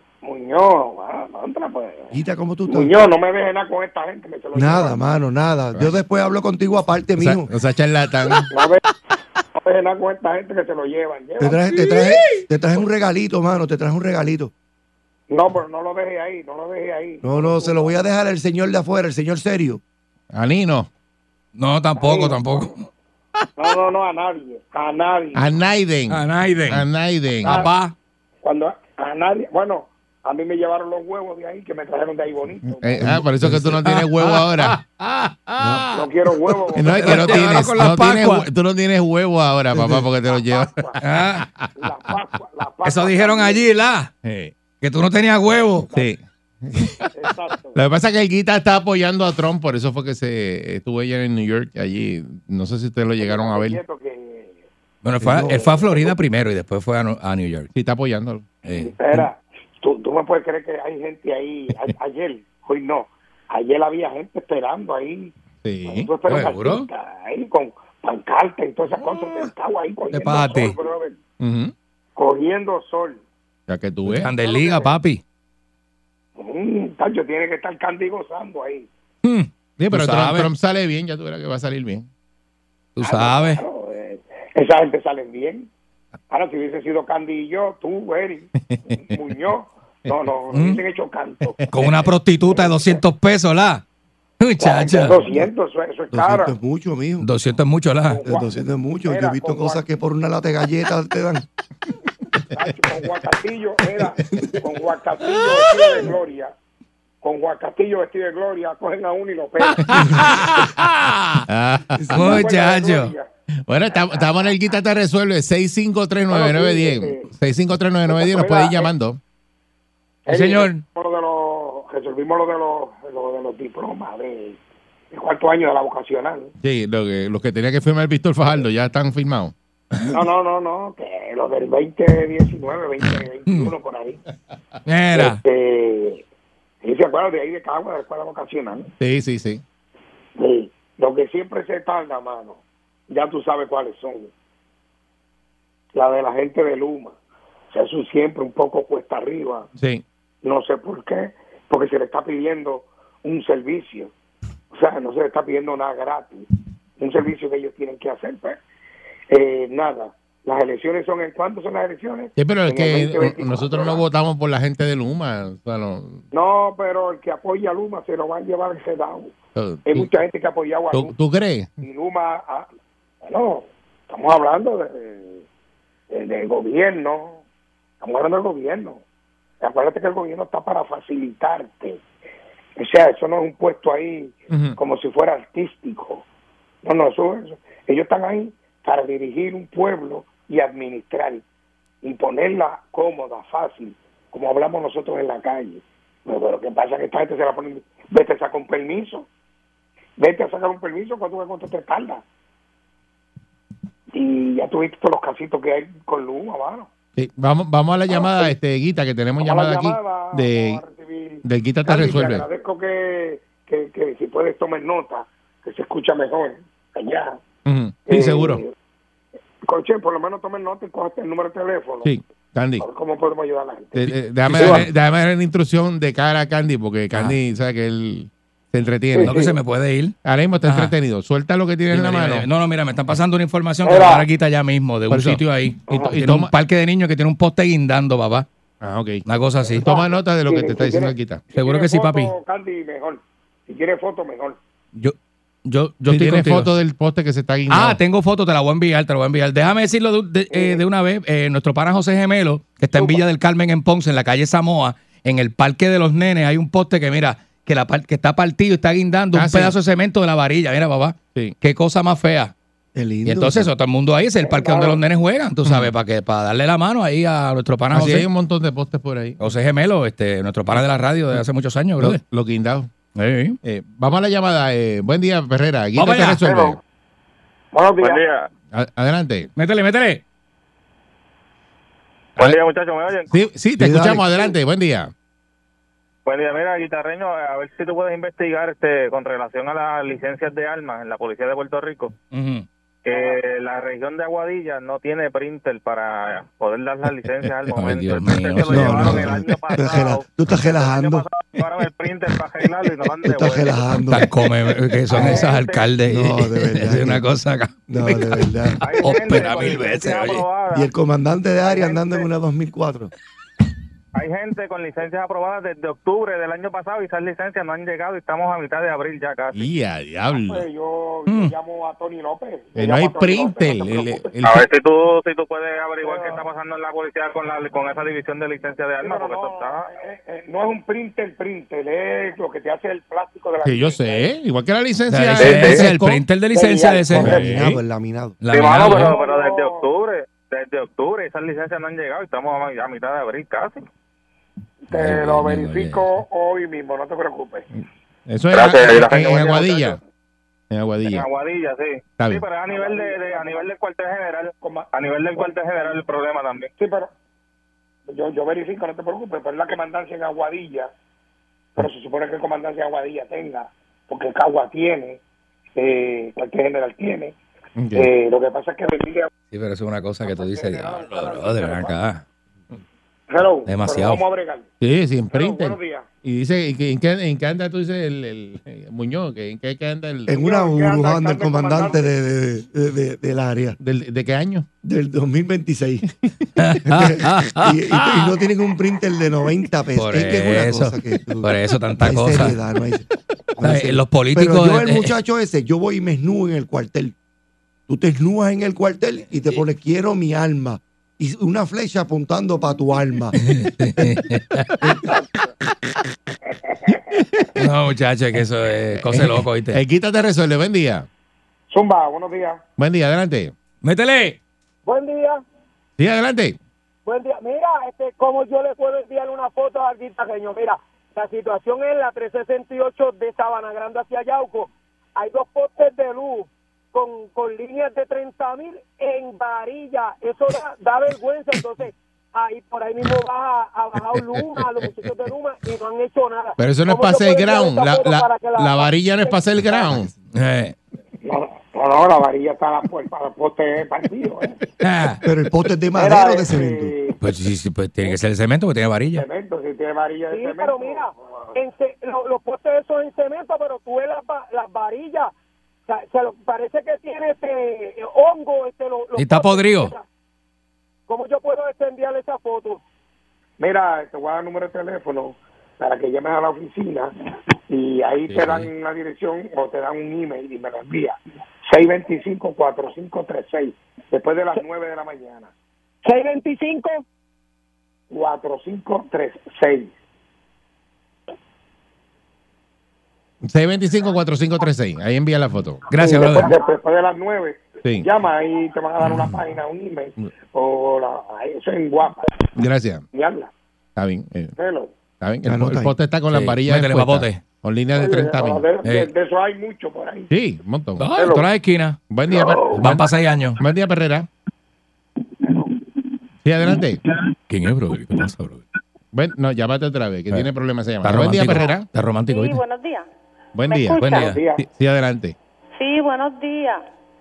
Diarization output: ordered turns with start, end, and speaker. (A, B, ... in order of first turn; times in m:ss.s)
0:00.2-0:02.1 A
0:02.1-0:03.0 B
0:02.7-0:05.0 A
0:04.5-0:07.5 B
0:07.2-0:08.5 C
0:08.5-0:08.8 A
0:09.6-0:11.7 A
0:11.4-0:14.5 B
0:15.3-0:18.0 A
0:17.2-0:19.8 B
0:20.3-0:20.9 C
0:21.5-0:22.9 D
0:21.9-0:22.7 A
0:23.6-0:25.5 A
0:25.3-0:27.5 C
0:26.1-0:26.9 D
0:27.4-0:27.9 D
0:28.4-0:33.1 A
0:32.8-0:34.8 C
0:33.0-0:38.5 D
0:35.6-0:36.0 B
0:35.9-0:37.6 A
0:36.8-0:41.7 C
0:39.7-0:40.0 B
0:40.2-0:41.0 A
0:41.0-0:41.4 D
0:41.8-0:43.7 A
0:42.8-0:44.1 D
0:44.2-0:44.6 C
0:44.7-0:45.9 D
0:45.9-0:47.0 C
0:47.1-0:47.8 A
0:47.7-0:53.8 C
0:53.2-0:54.6 A
0:55.0-0:57.7 D
0:55.4-0:56.1 A
0:57.7-0:58.5 C
0:58.6-0:59.3 D
0:58.8-1:05.3 A
1:05.6-1:06.2 C
1:05.8-1:11.2 A
1:06.2-1:06.9 D
1:10.1-1:10.8 D
1:11.4-1:11.7 C
1:12.2-1:13.2 A
1:13.7-1:14.3 C
1:14.1-1:15.2 D
1:14.4-1:15.0 A
1:16.4-1:18.9 A
1:19.2-1:20.5 D
1:19.8-1:22.1 C
1:23.0-1:23.6 D
1:23.0-1:25.7 A
1:26.3-1:31.6 A
1:28.6-1:29.2 C
1:30.5-1:30.8 D
1:31.4-1:32.1 C
1:31.7-1:33.8 D
1:32.5-1:33.0 A
1:34.4-1:35.2 D
1:34.6-1:36.6 A
1:36.1-1:37.3 B
1:37.2-1:38.2 D
1:38.1-1:38.5 A
1:38.2-1:41.4 B
1:39.0-1:39.8 A
1:42.5-1:46.5 A
1:47.2-1:49.8 A
1:49.8-1:51.4 D
1:51.5-1:52.3 C
1:52.1-1:53.1 D
1:52.1-1:53.3 A
1:53.7-1:59.2 C
1:53.9-1:54.4 A
1:56.3-1:57.3 A
1:58.1-1:58.9 A
2:00.2-2:04.6 A
2:00.3-2:00.8 D
2:05.1-2:06.5 A
2:06.6-2:09.5 C
2:10.1-2:14.2 A
2:13.0-2:13.7 D
2:14.8-2:15.4 D
2:15.1-2:16.2 A
2:16.8-2:18.9 A
2:19.0-2:19.6 C
2:20.4-2:24.3 A
2:25.9-2:27.2 A
2:27.7-2:29.7 A
2:29.8-2:30.0 C
2:30.4-2:34.1 A
2:34.7-2:38.6 A
2:39.3-2:44.0 A
2:42.4-2:46.2 C
2:46.3-2:49.3 A
2:49.6-2:50.2 C
2:49.8-2:51.1 A
2:50.9-2:51.8 C
2:51.8-2:52.7 A
2:53.2-2:55.4 A
2:56.1-2:57.4 A
2:58.0-2:59.0 A
2:59.6-3:02.0 A
3:02.8-3:06.2 A
3:04.5-3:04.8 C
3:06.8-3:11.4 A
3:12.0-3:19.3 A
3:20.2-3:22.2 A
3:24.1-3:26.9 A
3:27.2-3:30.8 C
3:28.1-3:28.5 A
3:29.4-3:37.4 A
3:31.4-3:32.4 C
3:37.6-3:38.6 C
3:38.1-3:38.7 A
3:39.6-3:42.1 A
3:42.0-3:42.8 C
3:42.8-3:44.1 A
3:43.9-3:49.4 C
3:44.4-3:44.9 D
3:47.1-3:47.4 D
3:49.1-3:49.5 A
3:49.2-3:51.0 D
3:50.2-3:52.5 C
3:51.9-3:58.5 D
3:53.8-3:54.3 A
3:55.1-3:55.4 C
3:55.9-3:56.2 A
3:56.1-3:56.5 C
3:58.8-3:59.2 C
3:59.2-3:59.9 D
3:59.7-4:04.6 A
3:59.9-4:01.5 C
4:01.5-4:02.3 D
4:04.9-4:06.8 D
4:06.1-4:08.0 C
4:07.7-4:22.5 D
4:10.5-4:10.8 A
4:12.9-4:13.2 A
4:19.3-4:19.8 C
4:22.9-4:23.7 B
4:23.2-4:28.3 D
4:24.4-4:25.0 A
4:25.6-4:25.9 C
4:27.9-4:29.4 C
4:29.4-4:32.2 D
4:32.0-4:32.9 C
4:33.1-4:33.6 D
4:33.6-4:36.8 C
4:35.9-4:36.4 D
4:36.4-4:36.8 A
4:37.7-4:38.2 A
4:38.0-4:38.5 E
4:38.7-4:39.5 C
4:39.6-4:40.2 D
4:42.4-4:43.3 E
4:43.3-4:45.1 C
4:43.8-4:44.6 B
4:46.2-4:52.1 E
4:52.3-4:52.7 D
4:53.0-5:04.0 E
4:57.5-4:59.8 D
4:58.6-5:01.3 B
5:03.2-5:04.3 B
5:04.0-5:10.5 D
5:05.1-5:06.0 E
5:05.2-5:05.5 A
5:06.0-5:07.2 B
5:07.9-5:09.2 B
5:08.8-5:10.9 E
5:10.7-5:13.1 B
5:11.6-5:12.2 E
5:14.2-5:19.6 E
5:19.5-5:20.6 C
5:20.3-5:24.6 A
5:21.3-5:21.5 D
5:22.8-5:24.6 C
5:24.4-5:29.8 E
5:26.0-5:26.5 A
5:29.0-5:34.3 A
5:33.6-5:36.2 C
5:35.1-5:37.4 D
5:35.4-5:35.8 A
5:36.5-5:37.2 A
5:37.1-5:38.4 B
5:37.2-5:37.8 C
5:38.4-5:39.1 D
5:38.5-5:43.8 E
5:38.9-5:39.9 A
5:44.9-5:46.2 D
5:44.9-5:47.7 A
5:48.3-5:50.0 C
5:48.5-5:49.8 E
5:49.0-5:50.0 A
5:50.7-5:51.3 C
5:51.0-5:56.7 E
5:52.2-5:52.5 C
5:52.6-5:53.7 A
5:54.6-5:56.0 A
5:56.8-5:57.1 A
5:58.1-6:00.9 A
6:01.8-6:05.2 A
6:05.8-6:07.3 A
6:07.8-6:08.1 C
6:07.9-6:09.3 A
6:09.5-6:12.2 D
6:10.2-6:12.0 A
6:13.3-6:14.7 A
6:13.6-6:14.2 D
6:14.8-6:20.3 C
6:15.3-6:16.1 A
6:20.3-6:23.8 B
6:20.3-6:22.1 A
6:23.8-6:24.6 C
6:24.8-6:26.1 B
6:26.6-6:28.4 D
6:26.8-6:37.1 B
6:29.9-6:32.6 D
6:33.6-6:35.1 D
6:37.9-6:43.4 B
6:43.3-6:44.7 D
6:46.7-6:46.9 A
6:47.1-6:47.5 C
6:47.5-6:49.8 D
6:49.0-6:51.0 C
6:51.7-6:52.6 A
6:52.8-6:53.5 C
6:53.8-6:54.4 D
6:54.8-6:55.4 F
6:56.0-6:56.6 C
6:57.0-7:19.9 F
7:16.6-7:20.1 C
7:20.3-7:20.7 D
7:21.2-7:24.6 A
7:24.8-7:25.2 D
7:25.2-7:27.0 B
7:25.9-7:27.2 A
7:27.2-7:29.2 D
7:29.1-7:31.6 A
7:30.3-7:35.3 F
7:35.9-7:40.0 F
7:39.1-7:39.9 D
7:41.1-7:42.8 F
7:43.6-7:47.1 A
7:47.7-7:55.5 A
7:48.3-7:48.7 D
7:56.0-7:57.0 F
7:58.1-7:59.9 A
8:03.4-8:05.8 C
8:05.9-8:06.5 D
8:06.0-8:06.5 F
8:06.2-8:12.3 A
8:07.8-8:08.1 C
8:09.0-8:09.4 D
8:12.5-8:13.0 C
8:13.1-8:13.5 A
8:14.0-8:14.5 C
8:14.6-8:14.9 A
8:15.2-8:18.7 C
8:15.4-8:15.9 B
8:16.3-8:17.4 D
8:18.0-8:20.3 A
8:18.8-8:19.1 D
8:20.3-8:21.1 C
8:21.0-8:22.0 D
8:21.1-8:21.5 A
8:22.1-8:23.0 C
8:22.3-8:23.0 A
8:22.7-8:23.6 D
8:23.6-8:24.3 C
8:25.4-8:25.7 A
8:26.4-8:27.0 C
8:27.5-8:28.6 D
8:29.1-8:31.9 C
8:31.0-8:32.6 D
8:32.3-8:33.1 G
8:33.5-8:35.3 C
8:33.7-8:34.4 G
8:34.0-8:34.4 D
8:34.2-8:34.6 A
8:35.8-8:36.8 G